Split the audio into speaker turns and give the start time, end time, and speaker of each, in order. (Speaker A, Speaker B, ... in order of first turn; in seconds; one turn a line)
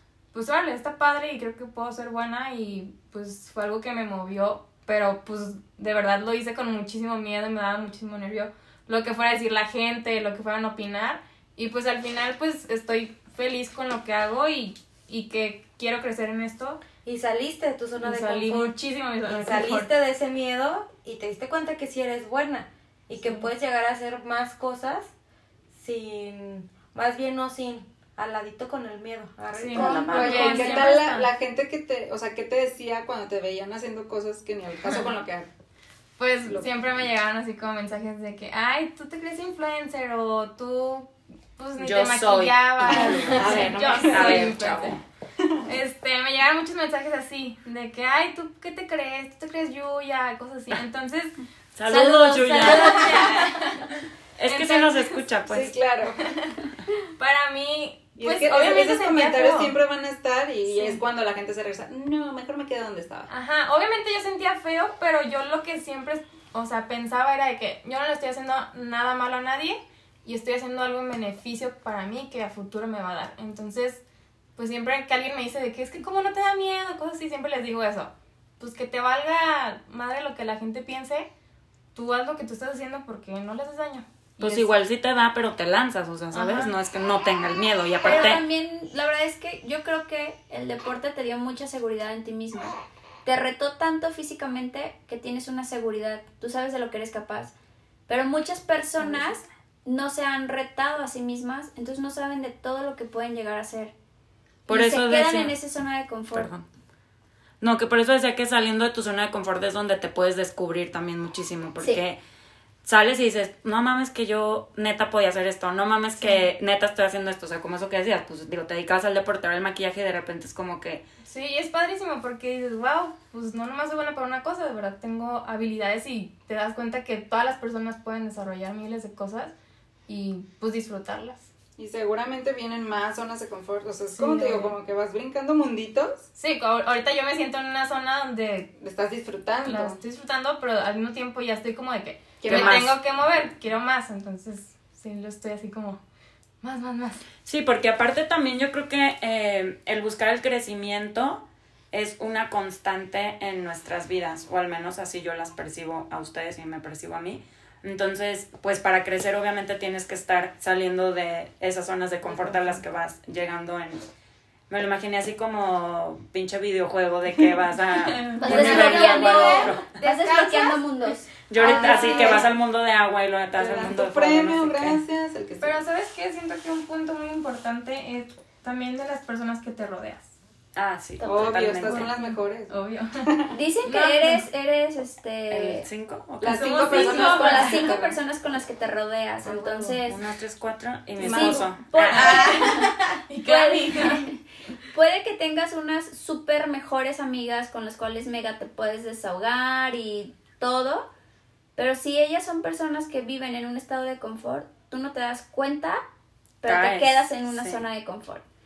Speaker A: 0.3-16.8
Speaker B: 17.0-18.7
Speaker A: 18.0-19.9
Speaker B: 19.3-25.1
Speaker A: 23.2-23.5
Speaker B: 25.7-31.1
Speaker A: 29.5-31.3
Speaker C: 29.8-30.1
Speaker D: 30.1-35.5
Speaker A: 36.2-45.0
Speaker D: 36.5-36.8
Speaker E: 41.8-45.0
Speaker D: 43.3-44.6
Speaker D: 45.4-45.7
Speaker A: 45.7-51.4
Speaker E: 51.8-53.4
Speaker C: 51.9-53.5
Speaker A: 52.6-55.1
Speaker E: 54.4-55.8
Speaker D: 55.5-56.2
Speaker A: 56.2-56.6
Speaker A: 57.2-59.8
Speaker D: 58.2-63.3
Speaker A: 60.7-61.0
Speaker A: 63.3-74.0
Speaker A: 74.6-81.3
Speaker A: 82.0-84.7
Speaker E: 84.4-88.4
Speaker A: 86.3-86.7
Speaker C: 88.0-97.5
Speaker C: 98.1-103.9
Speaker E: 104.7-105.6
Speaker C: 104.7-106.5
Speaker E: 106.3-106.7
Speaker E: 107.6-112.2
Speaker E: 112.8-121.0
Speaker A: 116.2-116.5
Speaker A: 121.2-129.5
Speaker A: 130.1-131.5
Speaker D: 131.8-136.3
Speaker A: 134.2-134.8
Speaker A: 136.4-138.7
Speaker D: 138.8-140.0
Speaker A: 139.7-146.0
Speaker D: 142.4-142.9
Speaker E: 142.4-142.9
Speaker A: 146.6-147.2
Speaker E: 147.5-164.0
Speaker E: 164.7-170.0
Speaker A: 168.0-169.5
Speaker C: 168.4-171.3
Speaker B: 168.5-171.1
Speaker D: 168.5-168.8
Speaker E: 171.5-175.0
Speaker D: 171.6-172.5
Speaker A: 171.7-172.4
Speaker D: 173.6-175.8
Speaker A: 175.6-180.3
Speaker E: 180.8-182.1
Speaker D: 181.3-183.6
Speaker A: 181.8-183.3
Speaker C: 183.5-185.9
Speaker A: 183.8-184.4
Speaker E: 185.5-187.4
Speaker D: 186.4-188.2
Speaker A: 186.4-188.0
Speaker C: 186.8-190.2
Speaker B: 189.6-189.9
Speaker E: 190.0-192.5
Speaker D: 191.2-191.7
Speaker C: 191.2-194.4
Speaker A: 192.1-194.2
Speaker C: 194.9-201.1
Speaker C: 201.8-206.0
Speaker C: 206.6-208.4
Speaker E: 206.6-207.8